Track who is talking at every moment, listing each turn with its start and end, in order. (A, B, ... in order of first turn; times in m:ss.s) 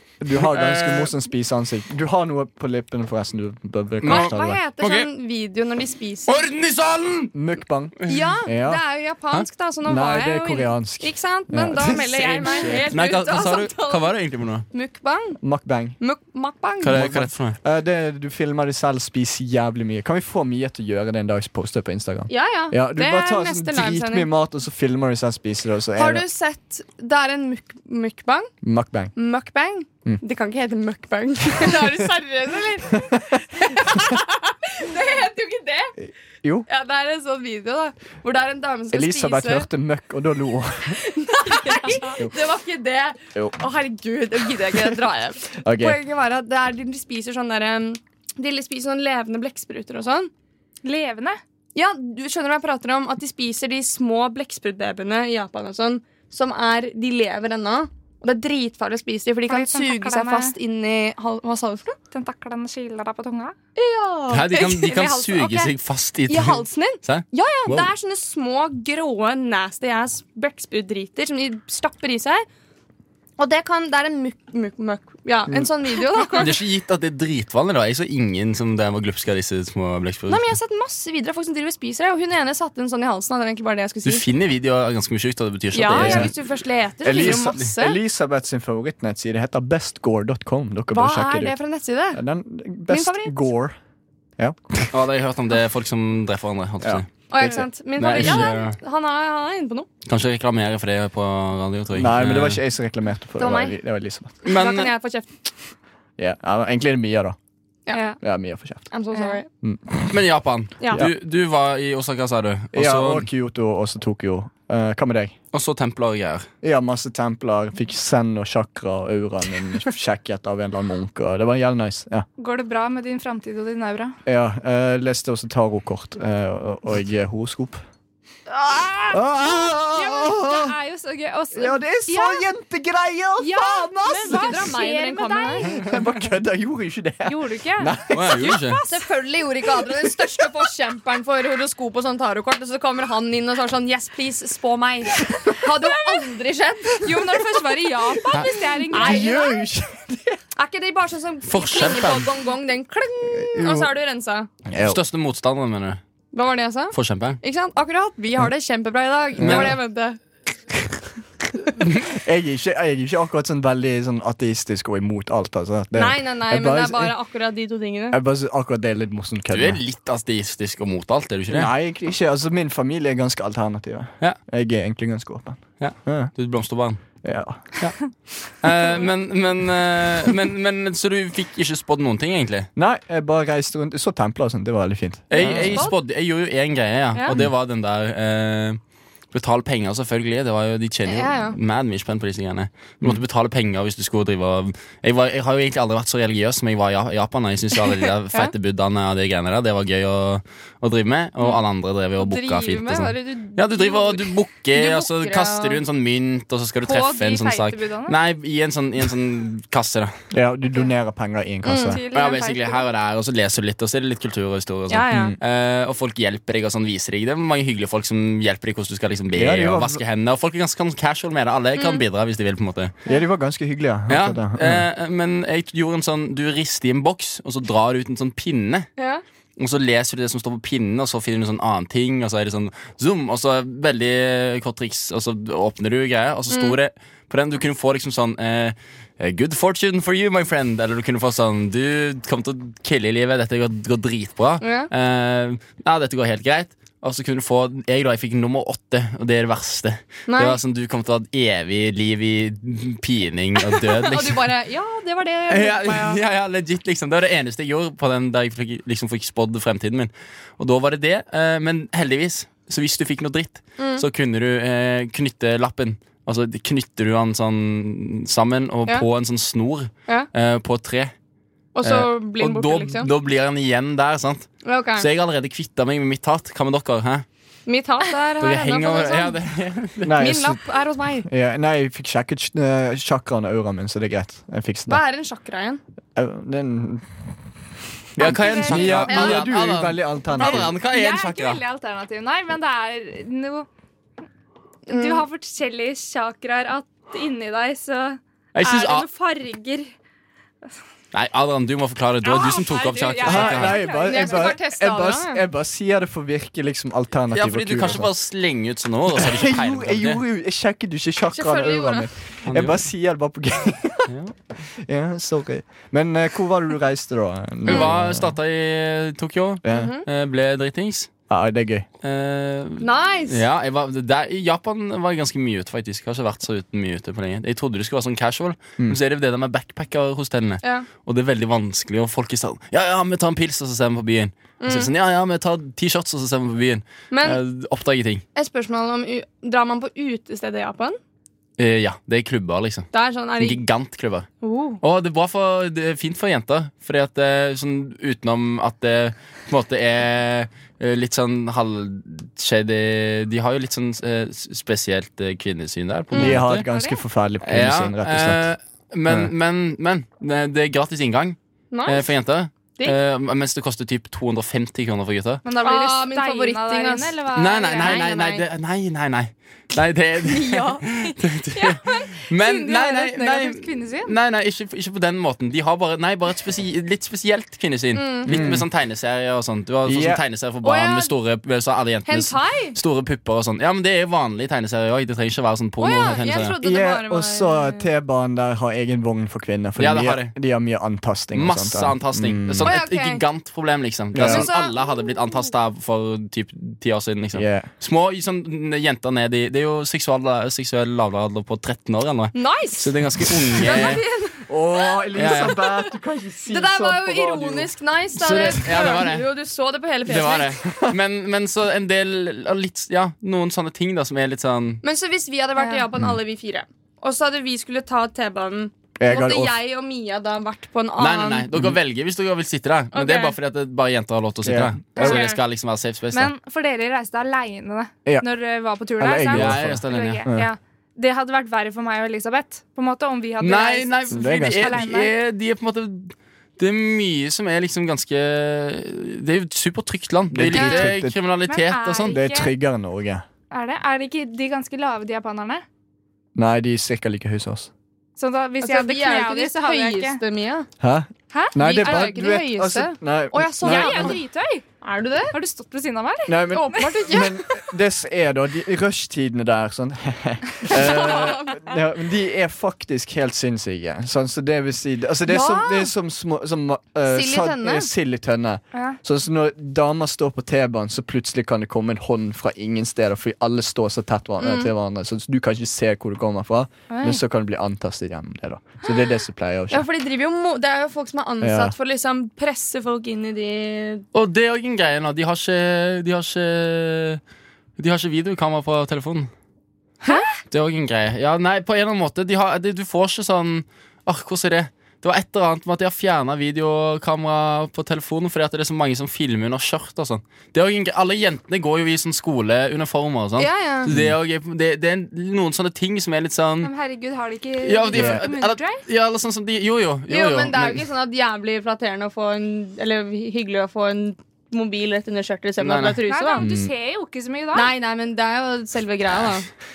0:00.2-0:04.6 A
0:00.3-0:01.1 B
0:04.0-0:05.1 B
0:04.0-0:06.3 C
0:06.3-0:07.3 B
0:07.3-0:08.8 A
0:08.1-0:14.1 C
0:09.8-0:12.9 A
0:12.9-0:14.6 B
0:14.7-0:15.4 C
0:15.4-0:16.0 A
0:16.0-0:17.0 C
0:16.8-0:17.6 B
0:16.8-0:26.2 A
0:22.3-0:24.3 C
0:26.0-0:28.5 C
0:28.6-0:29.1 A
0:29.2-0:35.9 C
0:31.7-0:32.0 A
0:32.9-0:33.2 A
0:36.0-0:36.7 A
0:36.7-0:39.7 C
0:38.9-0:41.0 A
0:41.0-0:50.3 C
0:45.6-0:46.0 A
0:50.8-0:51.4 D
0:51.7-1:02.0 C
0:59.5-1:00.5 D
1:02.1-1:03.5 D
1:03.8-1:05.7 C
1:04.3-1:07.9 B
1:06.3-1:12.4 C
1:13.4-1:16.5 C
1:16.4-1:20.5 B
1:20.3-1:24.3 C
1:24.0-1:26.3 B
1:25.7-1:28.0 C
1:25.9-1:26.3 A
1:27.0-1:31.6 A
1:27.2-1:27.5 B
1:30.9-1:32.2 C
1:32.1-1:33.8 A
1:32.9-1:33.5 C
1:34.9-1:38.8 B
1:36.8-1:38.5 A
1:37.3-1:39.9 C
1:40.0-1:42.6 B
1:41.9-1:44.4 A
1:43.4-1:43.8 C
1:44.4-1:45.3 C
1:44.4-1:44.9 B
1:46.2-1:47.4 A
1:47.9-1:48.1 C
1:47.9-1:48.2 D
1:48.2-1:48.9 A
1:48.9-1:49.5 C
1:49.1-1:49.4 D
1:49.6-1:50.2 A
1:50.1-1:53.3 B
1:50.8-1:51.1 C
1:52.7-1:55.4 A
1:55.5-1:56.5 B
1:56.6-2:02.2 A
2:02.4-2:04.2 D
2:04.2-2:07.8 A
2:08.5-2:12.4 D
2:09.1-2:10.7 A
2:11.5-2:14.7 A
2:13.4-2:15.9 D
2:14.2-2:15.7 C
2:15.7-2:18.6 A
2:17.3-2:19.0 D
2:18.1-2:18.8 B
2:18.9-2:27.5 C
2:25.2-2:25.5 A
2:27.0-2:29.5 D
2:28.8-2:30.4 A
2:28.9-2:29.5 C
2:30.6-2:34.5 C
2:31.4-2:32.3 B
2:33.3-2:33.9 A
2:34.6-2:35.0 A
2:34.8-2:36.0 B
2:36.3-2:40.2 C
2:36.9-2:37.4 B
2:39.4-2:39.7 A
2:39.4-2:39.7 B
2:42.0-2:47.1 A
2:45.9-2:48.2 C
2:48.1-2:49.8 A
2:49.5-2:51.7 B
2:51.5-2:56.3 A
2:55.8-2:57.0 B
2:57.2-2:57.7 A
2:58.5-3:02.7 B
3:02.8-3:05.8 A
3:05.3-3:08.8 B
3:05.4-3:05.9 C
3:09.3-3:30.1 B
3:11.0-3:11.6 C
3:22.2-3:24.0 D
3:24.7-3:25.8 C
3:26.8-3:28.1 D
3:30.3-3:32.0 A
3:31.6-3:32.0 C
3:31.8-3:32.8 D
3:32.1-3:43.0 B
3:34.9-3:35.3 C
3:35.1-3:35.4 A
3:39.3-3:40.0 A
3:41.8-3:42.0 C
3:43.0-3:44.8 A
3:44.1-3:48.9 B
3:49.0-3:49.2 C
3:49.6-4:14.5 B
3:56.5-3:56.8 C
4:04.6-4:04.9 C
4:10.3-4:10.6 C
4:13.6-4:16.2 C
4:15.5-4:31.1 B
4:23.8-4:24.0 C
4:31.7-4:33.1 C
4:31.8-4:37.2 B
4:34.6-4:35.0 C
4:37.6-4:39.4 C
4:38.4-4:40.3 B
4:40.0-4:40.6 A
4:40.1-4:41.3 C
4:41.2-4:45.0 A
4:44.9-4:45.8 C
4:46.1-4:47.0 A
4:48.1-4:50.7 A
4:48.2-4:51.6 B
4:48.2-4:49.0 D
4:50.4-4:53.7 D
4:54.9-4:55.2 C
4:54.9-4:59.9 D
4:58.5-4:59.1 B
5:01.1-5:03.8 B
5:02.2-5:04.5 D
5:03.2-5:08.1 A
5:04.0-5:05.4 C
5:07.3-5:10.2 B
5:09.1-5:18.3 A
5:11.3-5:12.1 C
5:12.4-5:12.8 B
5:14.1-5:14.3 B
5:17.6-5:21.1 B
5:19.6-5:19.9 A
5:19.7-5:20.0 C
5:21.3-5:21.9 A
5:22.0-5:38.2 B
5:22.8-5:23.4 C
5:30.6-5:30.9 C
5:34.6-5:34.9 C
5:37.1-5:37.4 C
5:38.3-5:41.0 C
5:41.6-5:44.3 B
5:42.9-5:43.6 C
5:44.4-5:44.8 C
5:44.8-5:56.6 B
5:56.1-5:56.4 C
5:56.1-5:58.4 A
5:56.6-5:57.0 D
5:57.4-6:05.4 B
6:01.7-6:02.1 C
6:05.4-6:08.4 D
6:05.6-6:07.2 C
6:07.3-6:26.5 B
6:10.2-6:10.8 C
6:11.5-6:14.1 D
6:17.9-6:18.3 C
6:18.3-6:18.7 A
6:19.8-6:20.2 A
6:20.6-6:21.1 C
6:22.1-6:22.8 C
6:25.8-6:27.9 C
6:26.6-6:32.7 A
6:29.8-6:30.4 B
6:31.3-6:44.0 B
6:32.6-6:33.2 C
6:34.1-6:34.5 A
6:34.2-6:35.4 C
6:37.3-6:37.7 A
6:42.3-6:42.9 C
6:43.6-6:44.4 C
6:44.5-6:47.7 A
6:45.1-6:45.9 C
6:45.1-6:45.6 B
6:46.5-6:50.6 C
6:48.2-6:49.3 B
6:48.2-6:48.5 A
6:50.0-6:54.8 B
6:50.7-6:51.0 A
6:54.8-7:01.5 C
6:55.6-6:55.8 D
6:59.0-6:59.6 A
7:01.0-7:06.3 B
7:02.9-7:03.4 C
7:04.4-7:05.2 A
7:05.0-7:05.2 D
7:05.0-7:05.4 C
7:06.1-7:15.1 D
7:09.0-7:10.5 A
7:09.3-7:10.2 B
7:13.4-7:22.2 B
7:14.1-7:14.8 A
7:20.3-7:21.2 A
7:20.5-7:20.9 C
7:21.5-7:22.5 D
7:22.1-7:23.2 A
7:23.5-7:25.6 D
7:26.4-7:27.7 A
7:28.2-7:30.2 D
7:28.6-7:30.7 C
7:30.8-7:34.2 A
7:31.3-7:32.1 D
7:31.6-7:34.2 C
7:33.6-7:34.6 D
7:34.8-7:35.3 C
7:35.3-7:36.8 D
7:36.3-7:59.8 A
7:36.5-7:37.4 C
7:40.7-7:41.8 C
7:45.3-7:45.9 C
7:47.1-7:47.9 C
7:54.4-7:54.7 C
7:56.9-7:57.2 D
7:59.7-8:04.0 C
8:01.4-8:01.7 A
8:04.1-8:07.2 B
8:07.8-8:09.3 B
8:10.5-8:26.7 B
8:23.4-8:23.9 C
8:23.9-8:24.1 A
8:26.6-8:28.8 D
8:27.6-8:30.8 B
8:27.9-8:28.3 A
8:30.1-8:36.5 C
8:35.6-8:36.7 B
8:36.1-8:37.7 D
8:37.5-8:39.5 C